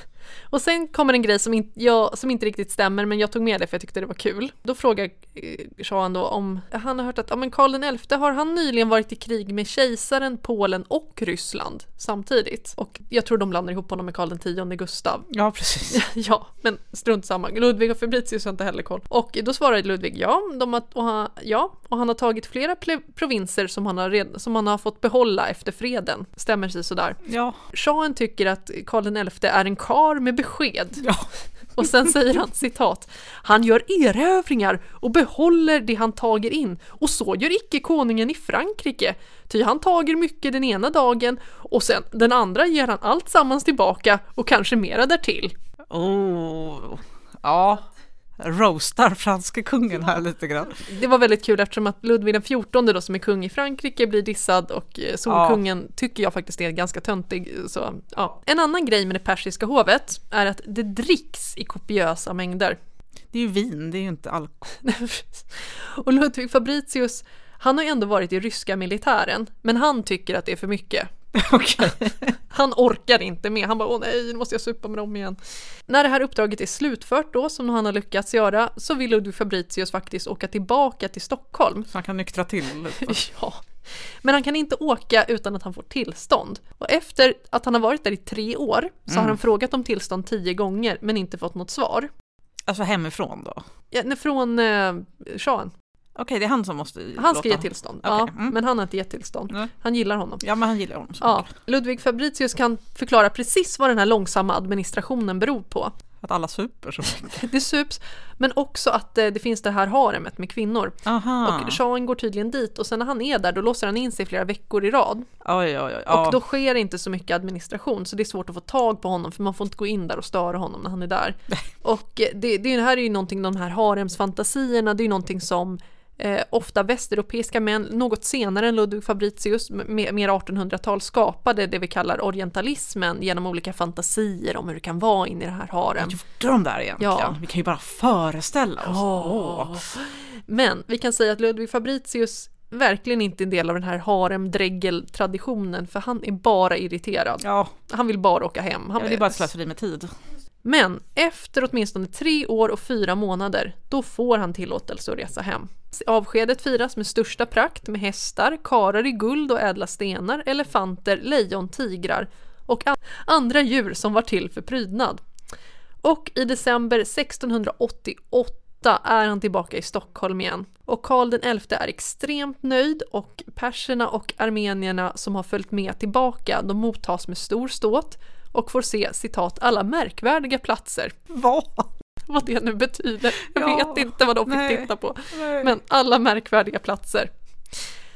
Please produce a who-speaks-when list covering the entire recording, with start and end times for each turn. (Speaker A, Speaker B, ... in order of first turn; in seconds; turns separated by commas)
Speaker A: 0.5-15.3, Speaker B: 15.3-16.0, Speaker A: 15.9-31.1, Speaker B: 27.2-27.6, Speaker B: 31.0-31.3, Speaker A: 31.8-45.5, Speaker B: 45.9-47.8, Speaker B: 48.4-50.8, Speaker A: 50.9-62.8, Speaker B: 55.3-55.6, Speaker B: 63.3-64.8, Speaker A: 64.8-71.1, Speaker B: 71.3-72.3, Speaker A: 72.5-81.9, Speaker B: 81.9-83.2, Speaker A: 83.0-83.6, Speaker A: 84.2-92.1, Speaker B: 89.1-89.4, Speaker B: 92.7-93.6, Speaker A: 93.9-95.7, Speaker B: 96.2-98.5, Speaker A: 97.2-100.4, Speaker B: 100.4-101.5, Speaker A: 101.2-105.9, Speaker B: 106.2-107.5, Speaker A: 107.3-115.3, Speaker B: 111.0-111.8, Speaker B: 115.4-116.4, Speaker A: 116.1-136.2, Speaker B: 136.0-139.8, Speaker A: 137.0-137.4, Speaker A: 138.8-149.5, Speaker B: 147.4-147.7, Speaker B: 149.0-150.1, Speaker A: 150.6-165.2, Speaker A: 166.0-181.2, Speaker B: 181.3-181.9, Speaker A: 182.3-187.3, Speaker B: 183.5-185.7